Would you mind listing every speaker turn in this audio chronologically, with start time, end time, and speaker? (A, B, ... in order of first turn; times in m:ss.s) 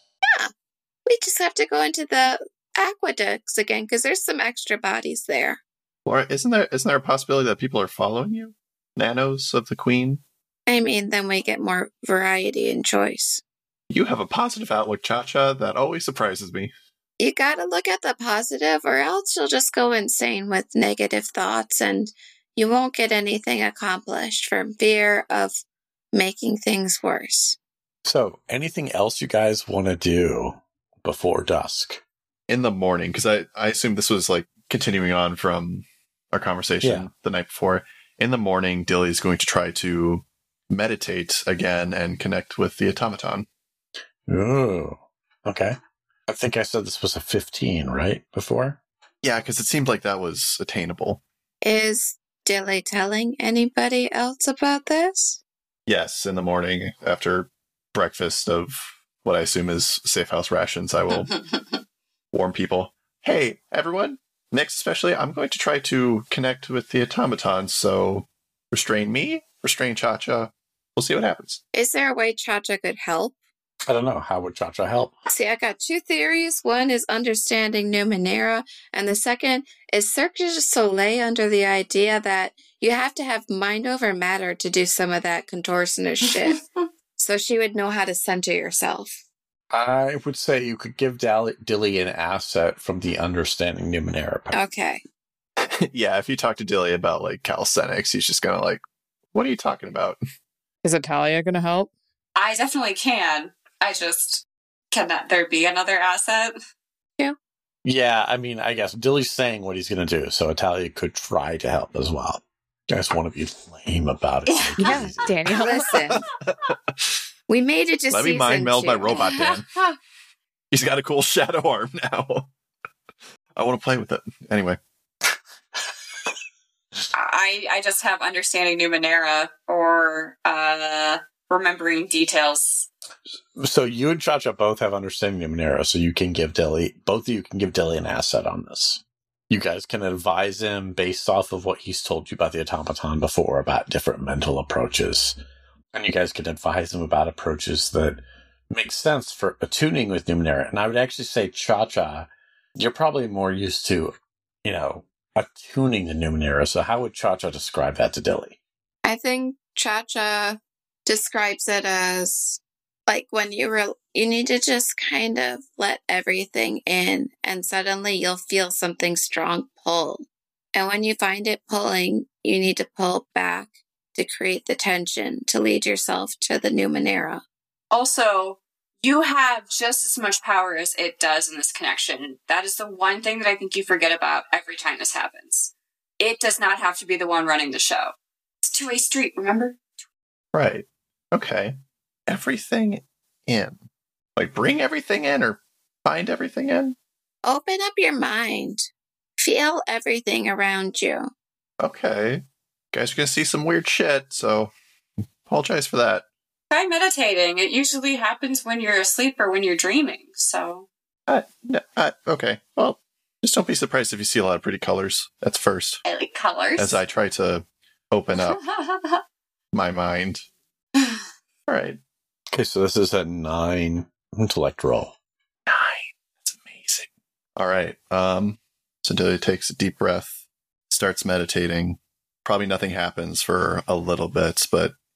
0:01.1-0:05.6 A
0:06.1-0:10.2 B
0:10.7-0:13.4 A
0:13.9-0:16.7 B
0:17.2-0:25.6 A
0:26.1-0:27.6 A
0:28.0-0:32.0 C
0:32.5-0:43.5 B
0:36.8-0:37.1 C
0:44.3-0:45.8 C
0:46.3-0:48.8 C
0:49.2-0:51.2 B
0:51.6-0:55.4 A
0:55.9-1:01.3 B
1:02.3-1:11.6 B
1:11.7-1:13.4 A
1:13.9-1:15.1 C
1:15.3-1:26.6 A
1:27.2-1:29.2 A
1:29.7-1:34.6 C
1:34.5-1:35.0 A
1:35.9-1:40.2 B
1:40.8-1:41.9 D
1:42.4-1:46.6 E
1:47.8-1:55.3 C
1:54.5-1:54.8 E
1:54.8-1:55.9 D
1:55.5-1:56.2 A
1:56.1-1:56.7 B
1:57.5-1:59.3 A
1:58.1-1:59.7 B
1:59.2-1:59.9 E
2:00.7-2:02.5 B
2:03.6-2:04.8 B
2:07.1-2:12.9 E
2:13.6-2:25.4 C
2:25.9-2:38.6 C
2:39.0-2:57.4 A
2:57.9-3:09.8 E
3:10.5-3:11.8 B
3:12.3-3:13.8 B
3:14.4-3:17.0 B
3:17.4-3:18.9 A
3:19.4-3:21.3 A
3:21.8-3:24.7 B
3:25.5-3:26.2 B
3:26.7-3:30.9 E
3:31.3-3:36.0 B
3:36.1-3:37.0 E
3:36.8-3:38.6 B
3:38.3-3:39.2 E
3:39.7-3:40.4 B
3:41.0-3:41.2 E
3:41.7-3:42.0 B
3:42.5-3:45.1 C
3:45.7-3:55.0 B